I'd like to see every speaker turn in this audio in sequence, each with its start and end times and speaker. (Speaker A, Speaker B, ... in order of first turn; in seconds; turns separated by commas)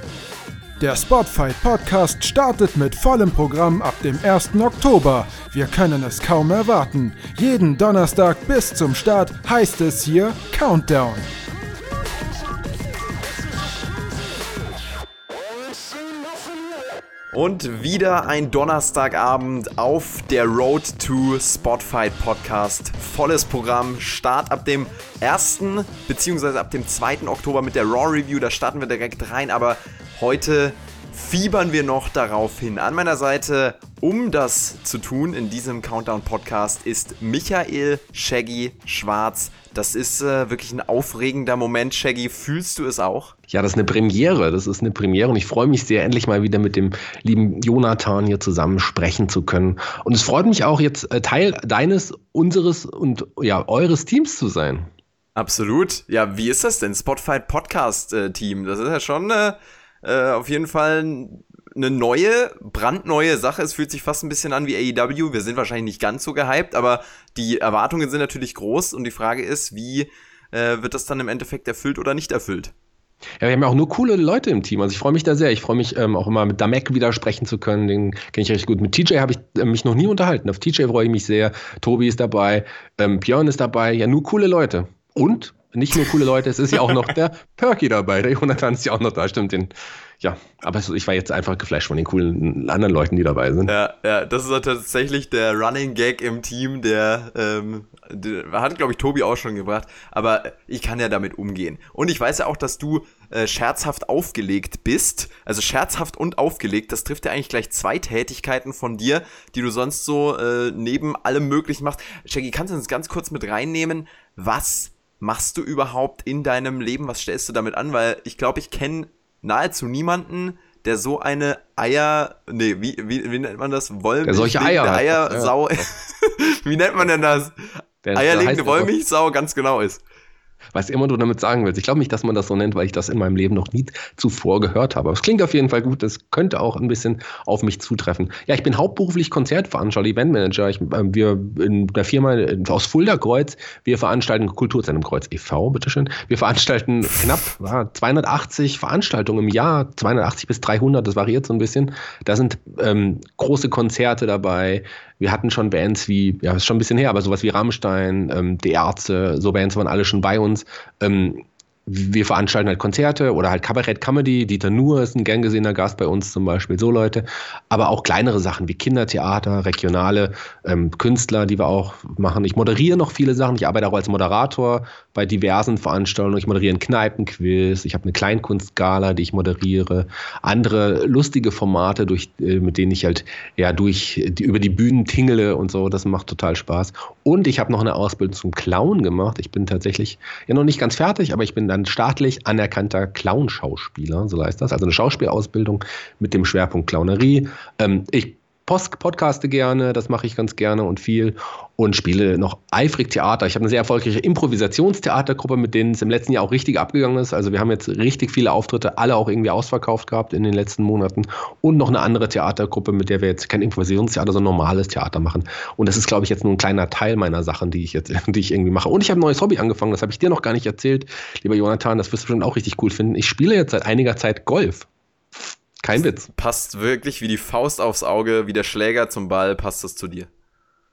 Speaker A: 0.8-11.2, Speaker B: 17.3-43.3, Speaker C: 43.5-54.9, Speaker B: 55.4-72.7, Speaker C: 73.4-93.7, Speaker B: 93.7-130.0, Speaker C: 124.2-125.8, Speaker C: 128.0-128.9, Speaker C: 130.7-224.9, Speaker B: 147.1-147.5, Speaker C: 225.8-226.3, Speaker B: 225.9-230.3